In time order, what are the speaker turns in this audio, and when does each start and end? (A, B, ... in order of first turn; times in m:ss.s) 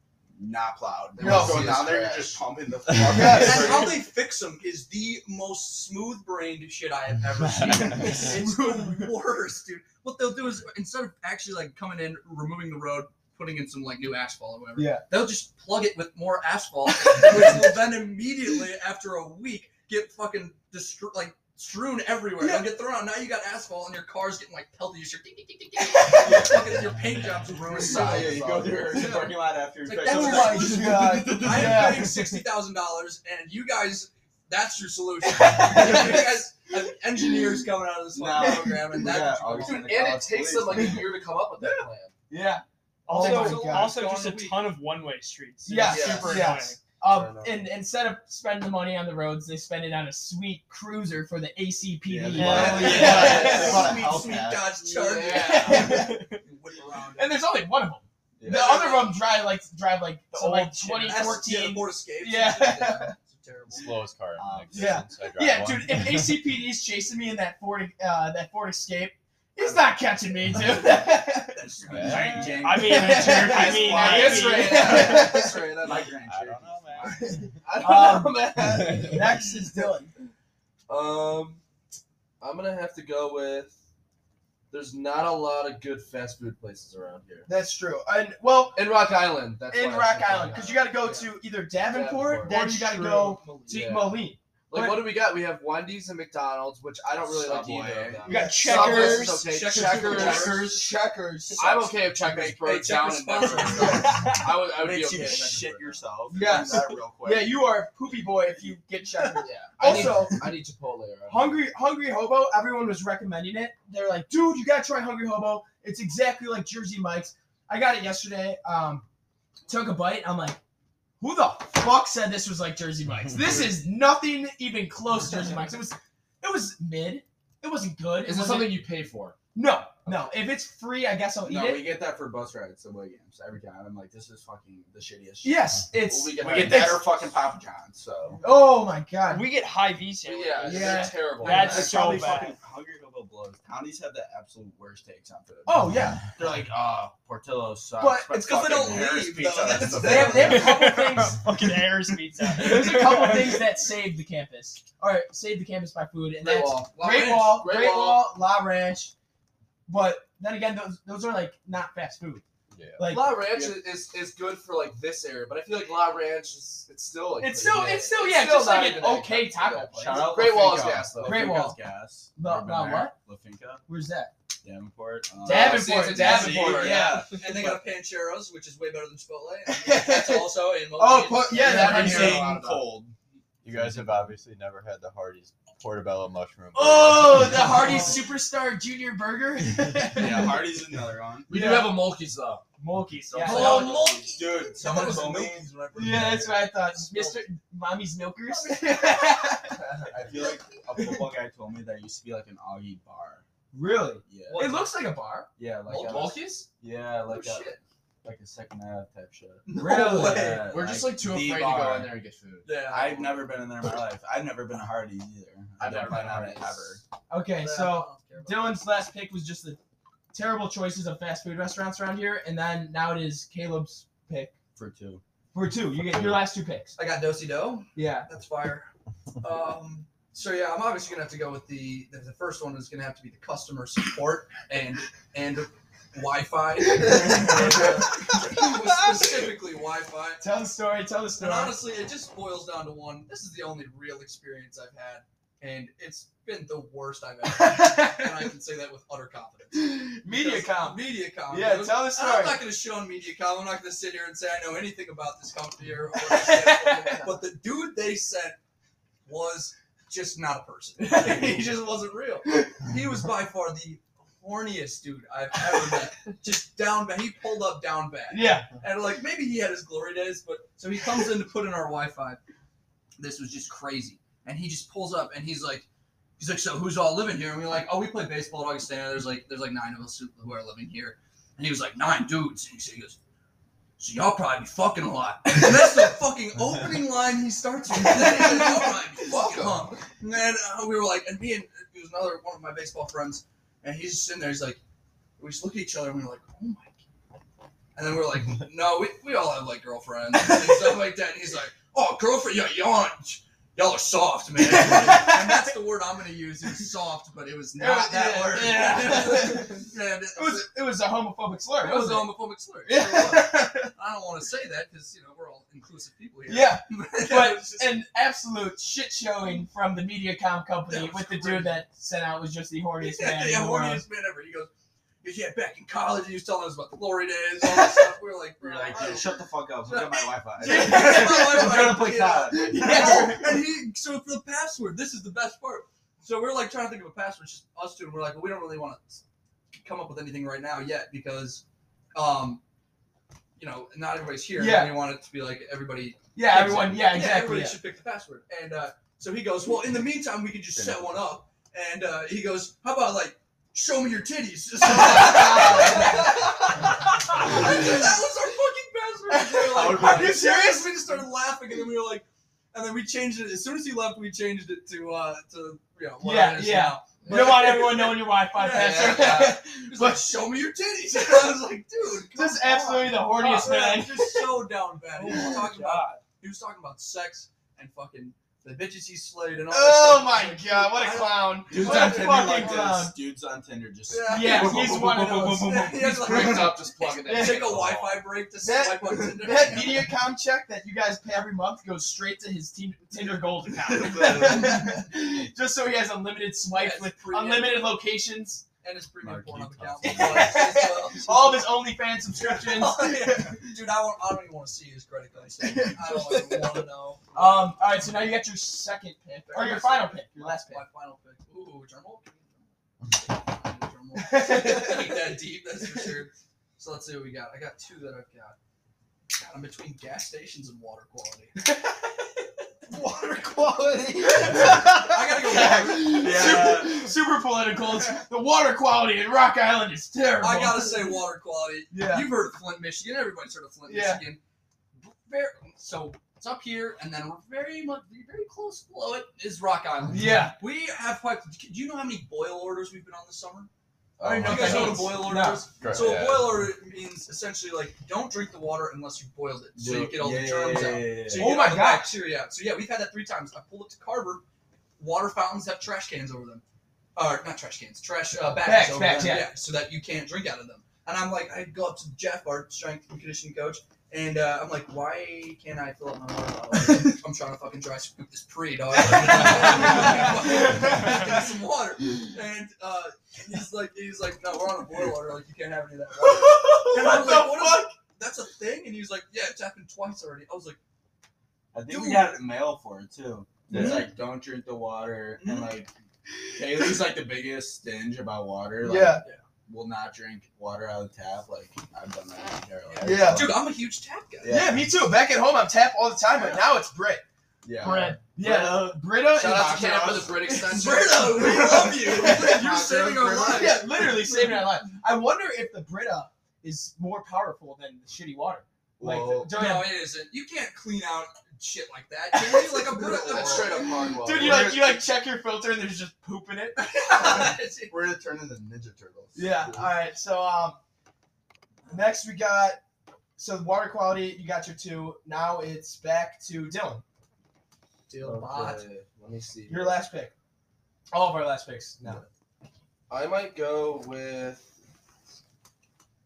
0:00.4-0:04.0 A
0:01.2-0:02.4 B
0:01.2-0:01.7 C
0:03.1-0:03.9 C
0:03.3-0:29.3 D
0:07.7-0:08.0 E
0:07.9-0:09.1 C
0:14.8-0:15.0 C
0:17.2-0:17.5 C
0:22.4-0:22.7 C
0:25.8-0:26.6 C
0:26.2-0:26.6 A
0:27.7-0:29.1 B
0:27.8-0:32.1 A
0:29.8-0:40.1 D
0:30.0-0:32.4 C
0:35.2-0:36.4 C
0:38.1-0:41.1 A
0:38.4-0:38.9 C
0:39.6-0:42.1 B
0:41.6-0:44.0 C
0:43.0-0:46.8 F
0:43.1-0:44.7 D
0:45.6-0:54.0 C
0:45.9-0:46.5 B
0:47.0-0:47.6 B
0:52.0-0:54.7 A
0:52.3-0:53.5 F
0:52.5-0:57.4 D
0:53.0-0:53.8 B
0:54.9-0:55.9 B
0:55.3-0:56.3 C
0:55.8-0:56.4 F
0:57.1-1:03.1 C
0:58.4-0:58.8 A
0:58.4-0:59.2 D
1:00.3-1:01.4 F
1:00.9-1:03.9 D
1:03.7-1:06.4 E
1:04.4-1:05.0 A
1:04.7-1:11.6 C
1:11.6-1:12.6 D
1:11.8-1:17.2 A
1:11.9-1:12.6 E
1:12.6-1:15.0 F
1:12.7-1:15.7 C
1:13.6-1:16.2 B
1:14.7-1:15.2 D
1:16.1-1:17.3 E
1:17.0-1:20.1 C
1:17.6-1:19.1 B
1:18.7-1:19.3 E
1:20.9-1:21.6 B
1:22.4-1:23.8 B
1:24.7-1:27.5 B
1:27.5-1:29.0 C
1:28.7-1:31.2 B
1:29.7-1:35.2 C
1:31.8-1:32.5 B
1:32.5-1:33.3 F
1:33.1-1:33.6 D
1:33.6-1:40.8 B
1:37.2-1:38.5 A
1:38.2-1:41.9 C
1:38.3-1:39.5 F
1:38.7-1:40.7 D
1:40.2-1:40.9 A
1:41.6-1:46.0 B
1:42.3-1:44.2 D
1:44.5-1:47.6 A
1:46.3-1:50.6 C
1:49.4-1:51.6 B
1:49.8-1:50.2 A
1:51.3-1:59.0 C
1:59.7-2:00.6 C
2:01.2-2:08.8 C
2:08.2-2:09.4 B
2:09.5-2:12.0 C
2:11.4-2:15.8 A
2:15.4-2:17.0 C
2:16.0-2:17.0 B
2:16.4-2:18.4 A
2:18.4-2:19.5 C
2:19.3-2:22.6 F
2:20.2-2:21.9 B
2:20.6-2:22.5 C
2:21.4-2:30.7 A
2:25.6-2:26.2 C
2:28.0-2:28.4 C
2:28.3-2:30.7 D
2:29.9-2:31.4 C
2:30.4-2:33.7 F
2:32.5-2:39.1 C
2:36.4-2:38.3 B
2:37.0-2:37.6 D
2:39.9-2:42.4 C
2:42.7-2:43.2 E
2:43.0-2:43.5 C
2:43.1-2:51.6 B
2:47.4-2:50.6 C
2:49.9-2:53.8 A
2:51.2-2:51.8 C
2:52.3-2:53.1 C
2:53.9-2:54.3 C
2:54.6-2:57.8 A
2:55.4-2:57.3 C
2:55.5-2:57.0 B
2:55.5-3:02.0 D
2:59.7-3:02.5 C
3:01.5-3:02.8 B
3:01.6-3:04.3 A
3:03.6-3:08.1 E
3:06.7-3:10.6 C
3:10.1-3:11.5 A
3:11.5-3:12.6 B
3:11.5-3:12.1 C
3:12.8-3:14.2 C
3:13.3-3:14.2 B
3:13.4-3:16.5 D
3:13.5-3:16.6 A
3:15.9-3:20.1 C
3:17.1-3:17.4 D
3:18.5-3:19.4 D
3:20.1-3:23.4 A
3:21.0-3:21.3 C
3:23.7-3:25.5 C
3:24.2-3:24.7 A
3:24.5-3:24.9 D
3:25.6-3:32.1 A
3:25.9-3:26.4 D
3:25.9-3:26.6 B
3:27.3-3:27.8 D
3:29.7-3:30.6 D
3:29.7-3:30.6 C
3:29.8-3:32.8 B
3:32.6-3:33.4 D
3:32.7-3:37.0 A
3:35.8-3:37.0 B
3:37.3-3:39.8 C
3:37.5-3:38.8 D
3:40.3-3:44.5 C
3:44.8-3:45.2 A
3:45.5-3:47.0 C
3:46.9-3:48.9 D
3:47.9-3:48.3 C
3:49.4-4:00.4 D
3:56.8-3:59.4 C
4:00.4-4:01.8 C
4:01.4-4:18.6 D
4:07.5-4:08.4 C
4:09.7-4:12.6 C
4:16.2-4:17.3 C
4:19.2-4:32.4 D
4:21.0-4:21.6 C
4:28.3-4:28.7 C
4:33.2-4:35.8 D
4:36.4-4:43.2 D
4:44.0-4:54.8 D
4:47.9-4:49.0 C
4:55.4-4:57.0 D
4:57.9-5:10.7 D
5:04.6-5:05.7 C
5:07.8-5:12.3 C
5:11.8-5:18.0 D
5:12.8-5:13.9 C
5:16.5-5:24.0 C
5:20.9-5:21.8 D
5:23.0-5:24.7 D
5:25.2-5:39.2 D
5:27.6-5:28.1 C
5:28.6-5:33.4 A
5:30.6-5:33.5 C
5:39.7-5:41.6 D
5:42.1-5:42.6 D
5:43.6-6:22.4 D
5:44.6-5:45.0 C
5:46.3-5:47.8 C
5:50.7-5:51.2 A
5:54.8-5:58.0 C
5:59.3-6:00.9 C
5:59.7-6:00.5 A
6:06.2-6:10.4 C
6:07.2-6:07.7 B
6:12.3-6:14.7 C
6:15.2-6:15.7 C
6:15.2-6:16.1 F
6:19.7-6:23.2 C
6:21.7-6:25.6 A
6:24.1-6:30.1 D
6:24.3-6:26.6 C
6:26.1-6:26.7 A
6:26.1-6:28.2 B
6:27.2-6:27.7 C
6:28.6-6:38.6 C
6:34.2-6:34.5 D
6:36.7-6:38.0 D
6:38.8-6:41.7 D
6:39.2-6:40.1 E
6:39.2-6:40.5 A
6:40.0-6:43.6 C
6:42.3-6:47.8 D
6:45.6-6:46.7 C
6:47.3-6:50.8 C
6:49.5-6:58.6 D
6:54.1-6:56.1 C
6:59.3-7:01.6 D
7:01.6-7:01.9 C
7:02.9-7:04.8 A
7:04.3-7:11.2 C
7:04.4-7:06.8 D
7:05.9-7:07.1 A
7:10.4-7:14.4 D
7:11.9-7:12.3 C
7:13.9-7:14.3 C
7:15.0-7:23.7 D
7:20.1-7:20.6 C
7:24.2-7:25.2 A
7:24.2-7:34.4 D
7:24.4-7:25.7 C
7:25.8-7:26.7 E
7:25.8-7:26.1 A
7:29.8-7:31.5 A
7:31.3-7:32.1 C
7:35.0-7:36.6 D
7:37.2-8:00.8 D
7:38.6-7:39.5 C
7:46.8-7:47.1 C
7:49.1-7:51.4 C
7:56.2-7:57.9 C
8:01.7-8:05.9 A
8:01.9-8:02.4 D
8:03.7-8:04.0 C
8:05.4-8:05.7 D
8:06.5-8:13.6 A
8:08.8-8:09.2 C
8:12.8-8:14.5 D
8:13.0-8:13.6 C
8:14.4-8:14.9 A
8:14.5-8:17.2 C
8:17.6-8:19.0 A
8:17.8-8:18.2 F
8:17.8-8:22.8 C
8:19.2-8:21.3 B
8:20.6-8:24.6 D
8:22.3-8:23.8 A
8:23.4-8:30.0 C
8:29.0-8:29.7 A
8:29.5-8:34.1 D
8:32.3-8:37.2 C
8:33.3-8:34.7 B
8:34.4-8:35.0 A
8:36.8-8:38.0 D
8:37.2-8:39.5 A
8:39.3-8:40.8 C
8:41.9-8:42.8 C
8:43.4-8:47.0 C
8:48.1-8:48.8 D
8:48.2-8:50.0 B
8:49.7-8:50.3 C
8:51.1-8:52.2 C
8:53.1-8:54.7 B